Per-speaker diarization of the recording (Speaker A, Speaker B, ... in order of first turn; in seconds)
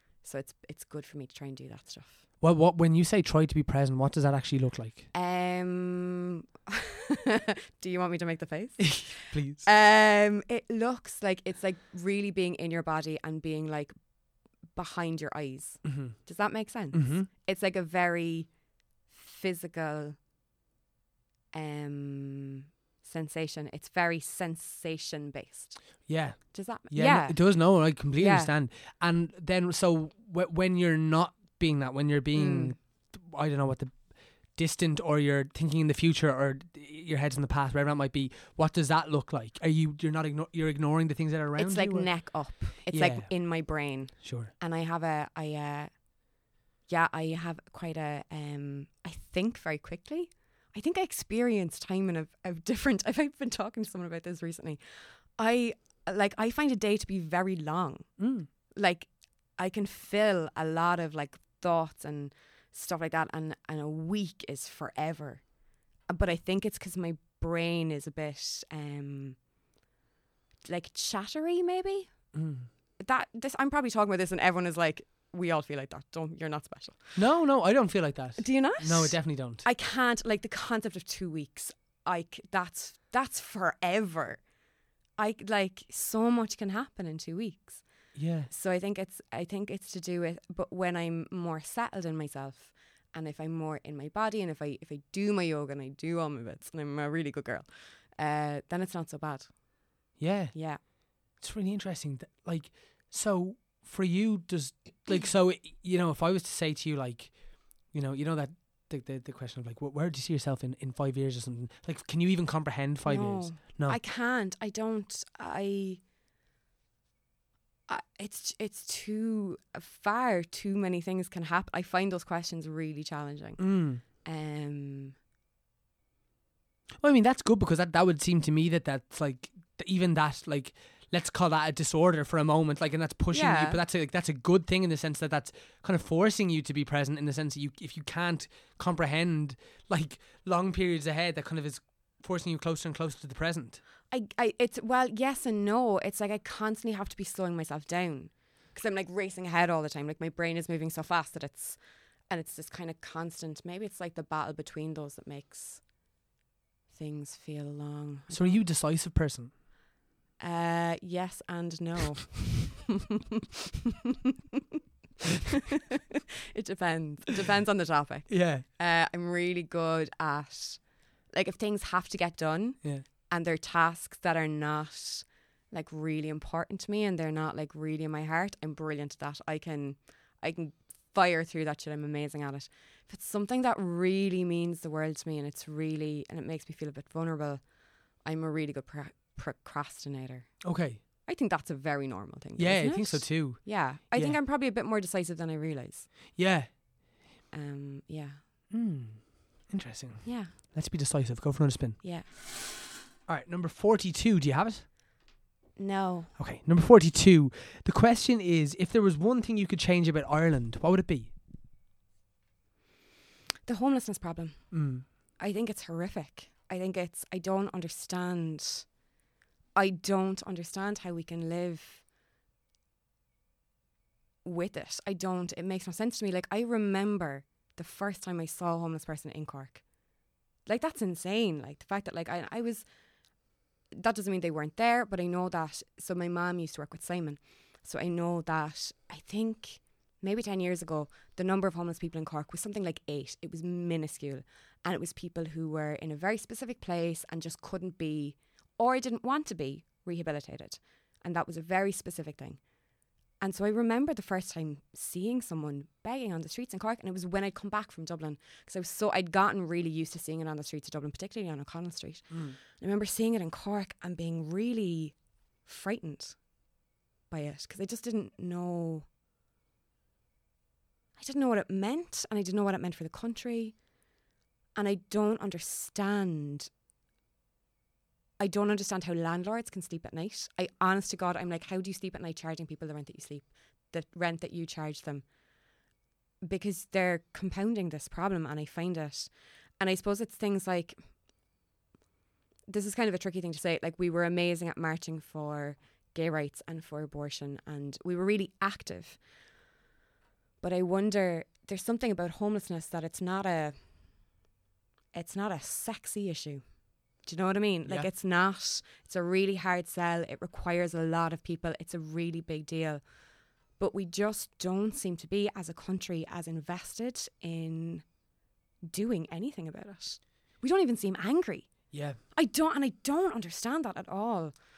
Speaker A: 0.2-2.2, 5.1-13.9, 14.7-18.5, 19.1-20.2, 21.5-25.8, 26.5-27.4, 28.2-28.5, 32.3-32.8, 41.6-45.9, 46.9-58.2, 58.7-65.4, 66.1-69.4, 70.7-72.1, 73.0-77.2, 78.4-84.4, 85.2-87.8, 88.5-99.6, 100.5-100.8, 113.0-116.0, 117.9-125.2, 133.3-133.8, 144.1-155.8, 156.9-158.6, 160.4-164.6, 165.5-187.6, 188.2-190.6, 191.2-196.1, 197.5-198.4, 200.2-200.6, 202.0-202.3, 205.8-206.3, 213.7-218.9, 219.8-222.0, 224.4-229.8, 230.7-232.8, 233.9-252.6, 253.4-266.4, 267.3-269.1, 271.2-273.8, 274.8-276.7, 278.4-285.2, 286.4-291.0, 292.7-299.2, 300.6-303.8, 305.1-306.6, 307.2-313.0, 313.8-318.0, 318.8-324.6
Speaker B: 2.4-5.1, 8.8-9.7, 15.8-16.2, 16.9-17.3, 26.1-42.3, 42.9-43.3, 44.2-44.5, 58.2-58.5, 72.3-72.7, 77.2-79.7, 88.2-88.5, 100.2-114.0, 123.6-124.0, 127.0-143.8, 158.3-159.5, 168.3-168.7, 190.6-191.0, 192.6-194.4, 196.3-196.7, 198.7-202.0, 203.3-204.9, 206.4-211.3, 214.7-215.1, 262.3-262.6, 321.9-322.2